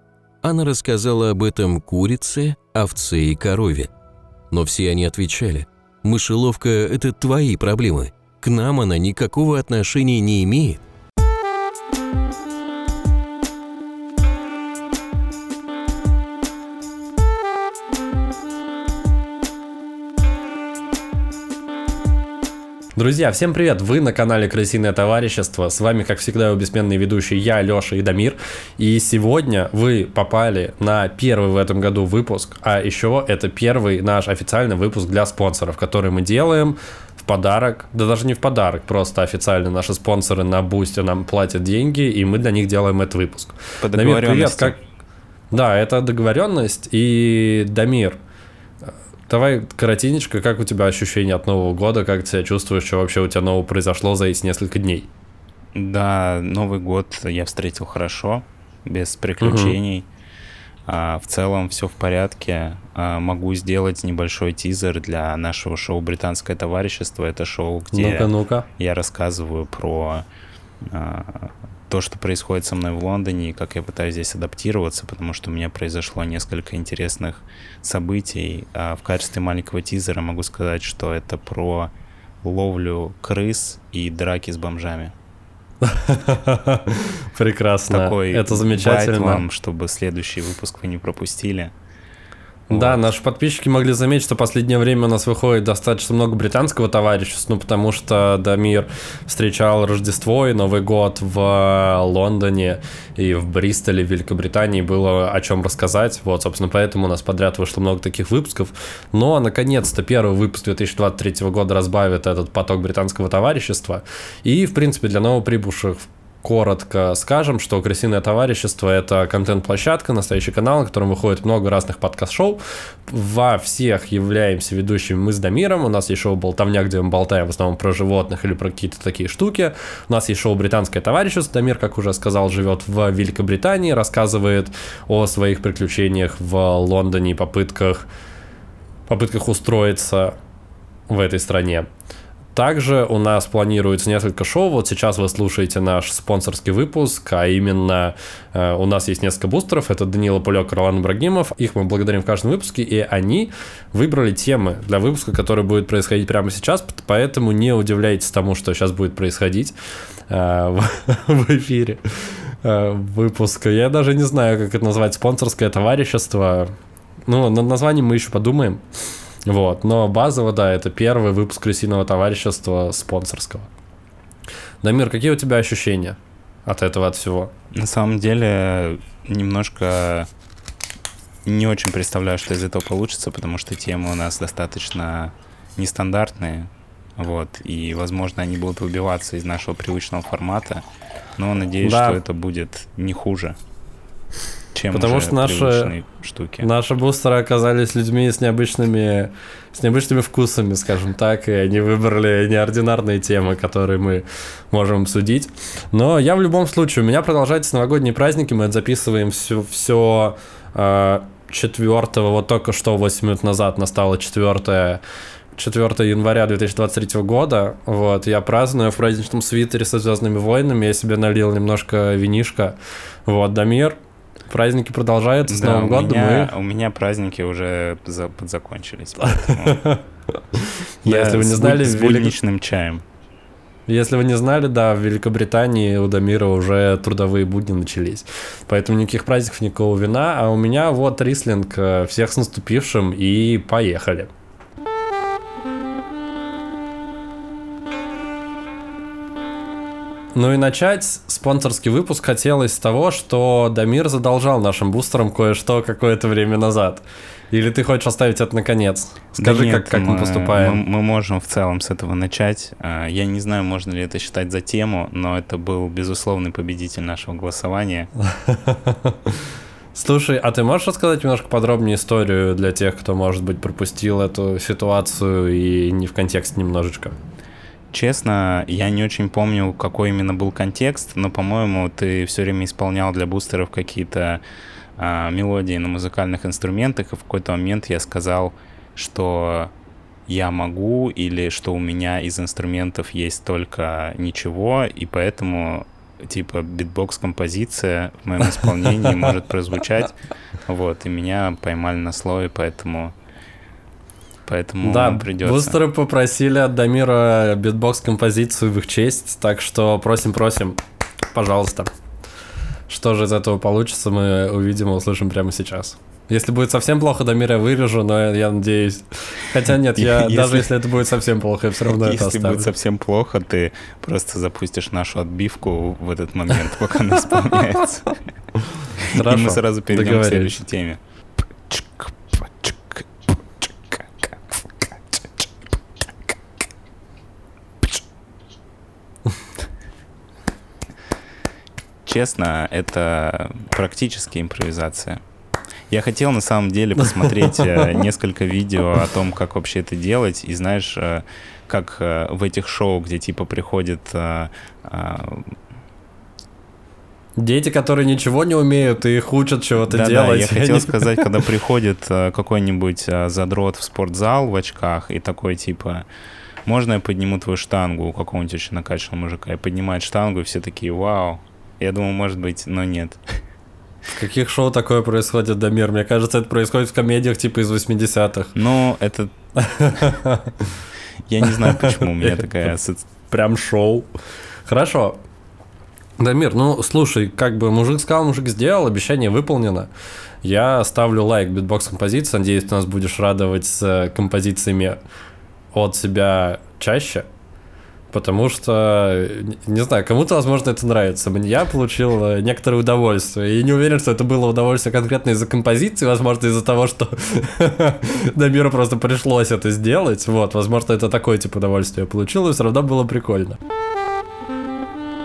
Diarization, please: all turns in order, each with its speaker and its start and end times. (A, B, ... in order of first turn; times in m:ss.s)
0:00.4-0:03.9 A
0:04.5-0:10.8 A
0:23.0-0:44.8 B
0:43.8-0:44.8 C
0:45.5-0:48.2 B
0:49.3-0:55.1 B
0:55.7-1:00.0 C
0:59.4-0:59.8 B
1:00.8-1:10.2 C
1:07.9-1:08.7 B
1:10.8-1:21.9 C
1:22.4-1:25.1 C
1:25.8-1:29.4 B
1:27.9-1:31.7 C
1:32.7-2:18.1 B
1:32.7-1:33.0 C
2:19.1-2:20.4 B
2:21.1-2:21.9 B
2:22.5-2:39.7 B
2:40.3-2:46.7 B
2:47.3-2:48.8 B
2:49.4-2:53.7 B
2:54.8-2:57.5 B
2:57.7-3:00.3 C
3:01.4-3:10.8 C
3:11.4-3:13.6 C
3:11.8-3:12.2 B
3:14.7-3:16.7 C
3:14.9-3:15.9 B
3:16.6-3:35.0 B
3:35.6-3:44.0 B
3:44.5-3:46.5 B
3:45.5-3:49.8 C
3:49.3-3:50.0 B
3:50.5-3:52.3 B
3:51.0-3:53.0 C
3:53.9-4:04.3 B
4:10.3-4:20.8 B
4:19.4-4:28.1 C
4:28.2-4:29.4 B
4:29.9-4:37.1 B
4:37.9-4:44.4 C
4:45.0-4:49.7 C
4:50.3-5:03.1 C
5:04.4-5:05.8 C
5:04.8-5:10.8 B
5:11.3-5:11.9 B
5:12.9-5:22.7 B
5:20.0-5:20.7 C
5:21.8-5:28.2 C
5:29.0-5:31.0 C
5:29.1-5:30.6 B
5:31.7-5:33.0 C
5:33.6-5:35.4 C
5:42.0-5:45.2 C
5:45.9-5:55.6 C
5:47.1-5:47.9 B
5:57.4-6:01.0 B
5:59.8-6:06.0 C
6:06.6-6:13.4 C
6:14.1-6:18.5 B
6:18.5-6:19.3 C
6:19.6-6:20.7 B
6:21.2-6:23.1 C
6:21.4-6:22.4 B
6:23.3-6:24.1 B
6:24.7-6:25.2 B
6:26.2-6:29.9 B
6:30.4-6:35.0 B
6:35.7-6:37.2 B
6:38.1-6:53.6 B